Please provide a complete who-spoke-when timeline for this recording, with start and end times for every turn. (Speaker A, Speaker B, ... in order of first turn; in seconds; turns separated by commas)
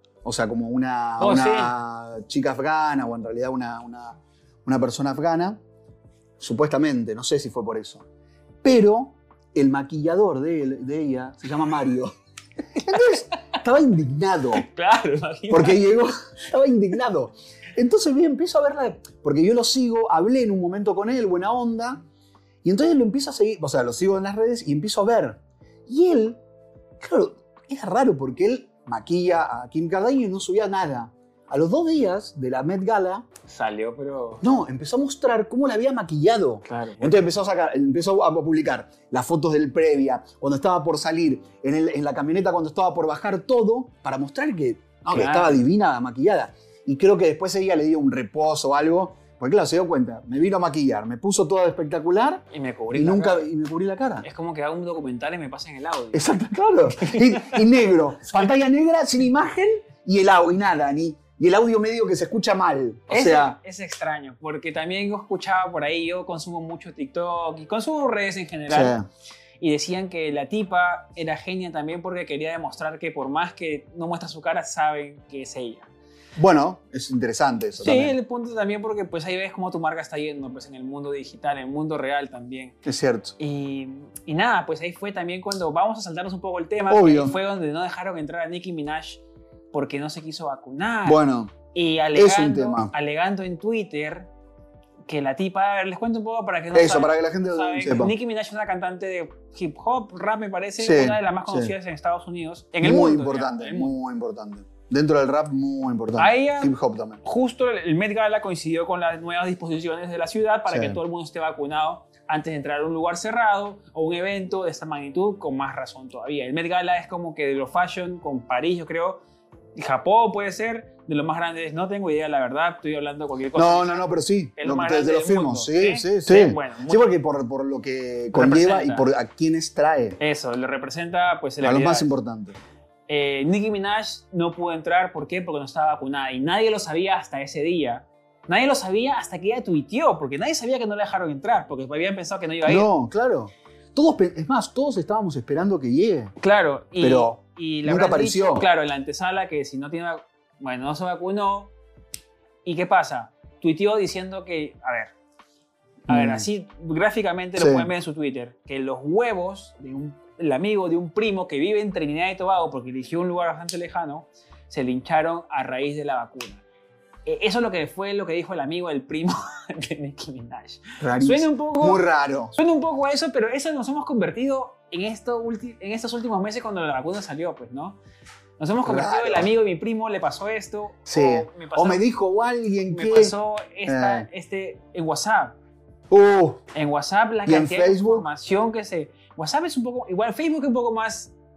Speaker A: 0.2-5.6, Speaker B: 1.2-1.7, Speaker A: 6.4-8.0, Speaker A: 8.6-12.1, Speaker A: 12.8-14.7, Speaker B: 12.9-13.2, Speaker B: 14.5-15.9, Speaker A: 15.5-22.0, Speaker A: 22.6-26.4, Speaker A: 27.0-33.2, Speaker B: 33.5-34.5, Speaker A: 34.4-54.2, Speaker B: 36.6-37.1, Speaker B: 45.1-45.6, Speaker B: 52.5-53.5, Speaker B: 54.2-56.3, Speaker A: 56.1-63.6, Speaker B: 57.0-57.6, Speaker B: 63.1-69.0, Speaker A: 68.7-69.1, Speaker B: 69.6-75.9, Speaker A: 76.4-78.2, Speaker B: 77.8-82.8, Speaker A: 82.8-83.4, Speaker B: 83.4-91.2, Speaker A: 86.9-87.3, Speaker A: 91.0-91.5, Speaker B: 91.7-94.3, Speaker A: 92.1-92.9, Speaker B: 95.1-103.9, Speaker A: 96.7-98.1, Speaker A: 100.8-101.7, Speaker A: 102.8-107.2, Speaker B: 106.2-119.2, Speaker A: 110.7-111.0, Speaker B: 119.8-124.0, Speaker A: 123.5-130.2, Speaker B: 124.6-127.1, Speaker B: 128.3-129.1, Speaker B: 130.2-132.1, Speaker A: 131.6-132.6, Speaker B: 133.1-142.9, Speaker A: 142.6-146.3, Speaker B: 146.4-151.7, Speaker A: 147.0-148.7, Speaker B: 152.6-155.1, Speaker B: 156.1-166.6, Speaker A: 156.1-156.5, Speaker A: 157.6-157.9, Speaker B: 167.2-172.0, Speaker A: 171.0-172.6, Speaker B: 172.5-178.0, Speaker B: 178.6-182.0, Speaker A: 178.8-179.5, Speaker A: 181.1-183.3, Speaker B: 182.9-185.6, Speaker A: 183.9-184.3, Speaker A: 186.1-186.6, Speaker B: 186.7-191.3, Speaker A: 187.4-188.3